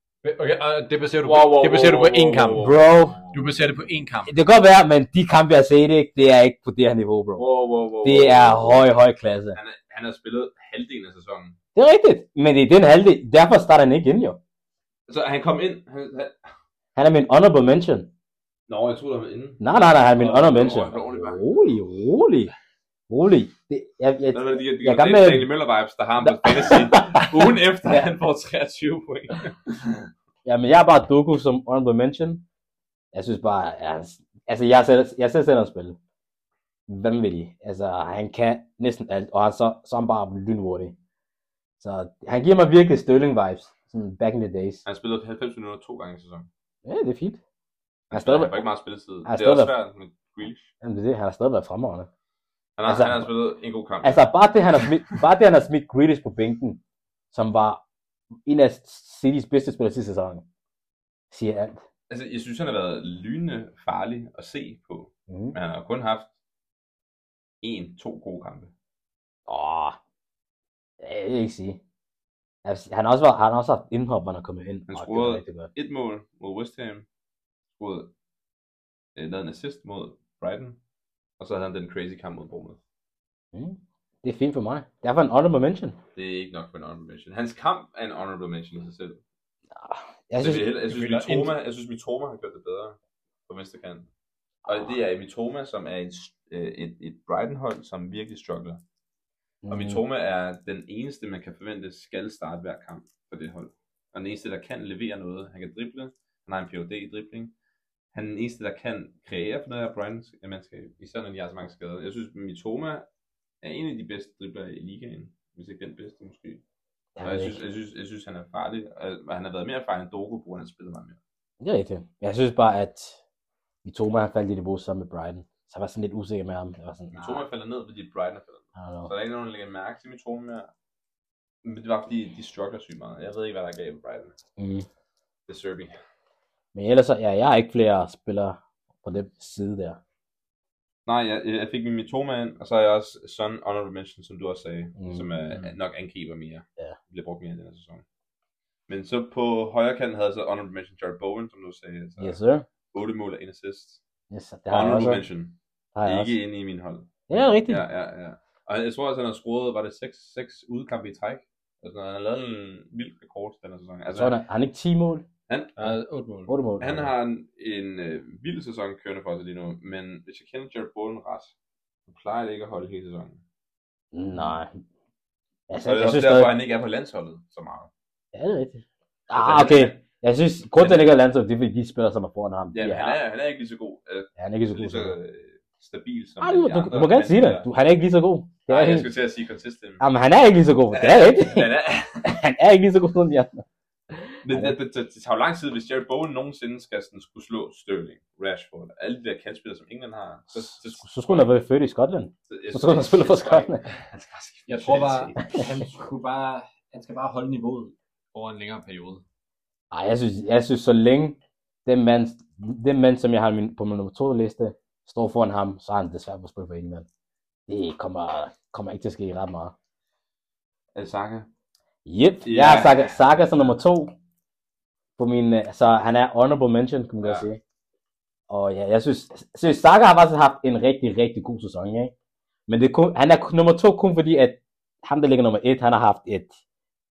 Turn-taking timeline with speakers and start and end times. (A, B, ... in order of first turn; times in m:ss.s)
0:00.2-0:02.7 A
0:01.2-0:03.8 B
0:02.6-0:03.2 C
0:03.3-0:04.3 A
0:04.2-0:07.4 C
0:07.4-0:08.9 B
0:08.0-0:09.6 C
0:09.5-0:11.6 B
0:11.8-0:14.4 C
0:15.1-0:16.4 B
0:17.0-0:18.1 C
0:18.7-0:21.4 B
0:19.6-0:22.5 C
0:23.1-0:25.5 C
0:24.3-0:30.1 B
0:26.2-0:27.3 C
0:30.4-0:32.4 C
0:33.1-0:36.0 C
0:36.9-0:41.0 C
0:41.8-0:44.8 C
0:44.8-0:46.5 B
0:46.8-0:47.4 C
0:48.1-0:50.7 B
0:48.1-0:48.6 C
0:49.2-0:49.7 C
0:50.8-0:52.1 C
0:52.8-0:54.3 B
0:52.8-0:53.3 C
0:54.0-0:56.8 C
0:57.3-0:57.8 C
0:58.4-1:00.4 C
1:01.3-1:01.8 C
1:02.1-1:06.3 B
1:05.3-1:05.6 C
1:07.6-1:08.7 B
1:09.5-1:10.0 C
1:11.0-1:11.8 C
1:12.6-1:15.7 C
1:14.9-1:17.0 B
1:17.8-1:18.1 B
1:19.2-1:20.8 B
1:21.4-1:22.8 B
1:23.5-1:26.0 C
1:26.1-1:29.2 B
1:29.7-1:30.6 C
1:30.4-1:33.0 B
1:30.9-1:31.5 A
1:33.5-1:34.1 B
1:34.6-1:34.9 C
1:34.6-1:38.8 B
1:39.6-1:40.0 C
1:39.7-1:47.5 B
1:48.1-1:53.1 B
1:53.6-1:56.6 B
1:57.2-1:57.6 C
1:57.2-2:01.2 B
2:01.6-2:03.2 C
2:03.8-2:07.4 C
2:07.1-2:10.7 B
2:08.8-2:09.1 C
2:11.6-2:14.3 B
2:14.6-2:14.8 C
2:15.5-2:16.0 B
2:16.7-2:20.0 C
2:21.0-2:28.0 B
2:25.0-2:25.2 C
2:28.9-2:32.4 B
2:32.2-2:32.6 C
2:32.9-2:34.0 B
2:34.3-2:35.2 C
2:34.7-2:44.3 B
2:35.9-2:36.4 C
2:37.3-2:37.8 C
2:44.1-2:45.2 C
2:45.5-2:45.9 B
2:45.8-2:46.6 A
2:46.5-2:47.1 C
2:46.8-2:51.5 B
2:52.1-2:53.4 B
2:54.1-2:54.8 C
2:55.7-2:56.5 C
2:55.8-2:57.9 B
2:58.3-3:03.2 C
2:59.3-3:00.0 B
3:00.7-3:01.2 B
3:02.7-3:07.7 B
3:04.4-3:05.2 C
3:06.4-3:09.1 C
3:08.7-3:10.0 B
3:10.0-3:11.7 C
3:10.9-3:12.4 B
3:12.2-3:14.8 C
3:14.4-3:21.5 B
3:20.5-3:23.8 C
3:22.5-3:25.8 B
3:24.7-3:29.2 A
3:29.9-3:37.0 C
3:37.7-3:39.7 C
3:40.9-3:41.5 B
3:42.0-3:44.1 C
3:42.4-3:43.7 B
3:45.2-3:47.6 C
3:47.2-3:47.5 B
3:48.5-3:52.1 C
3:52.7-3:56.6 C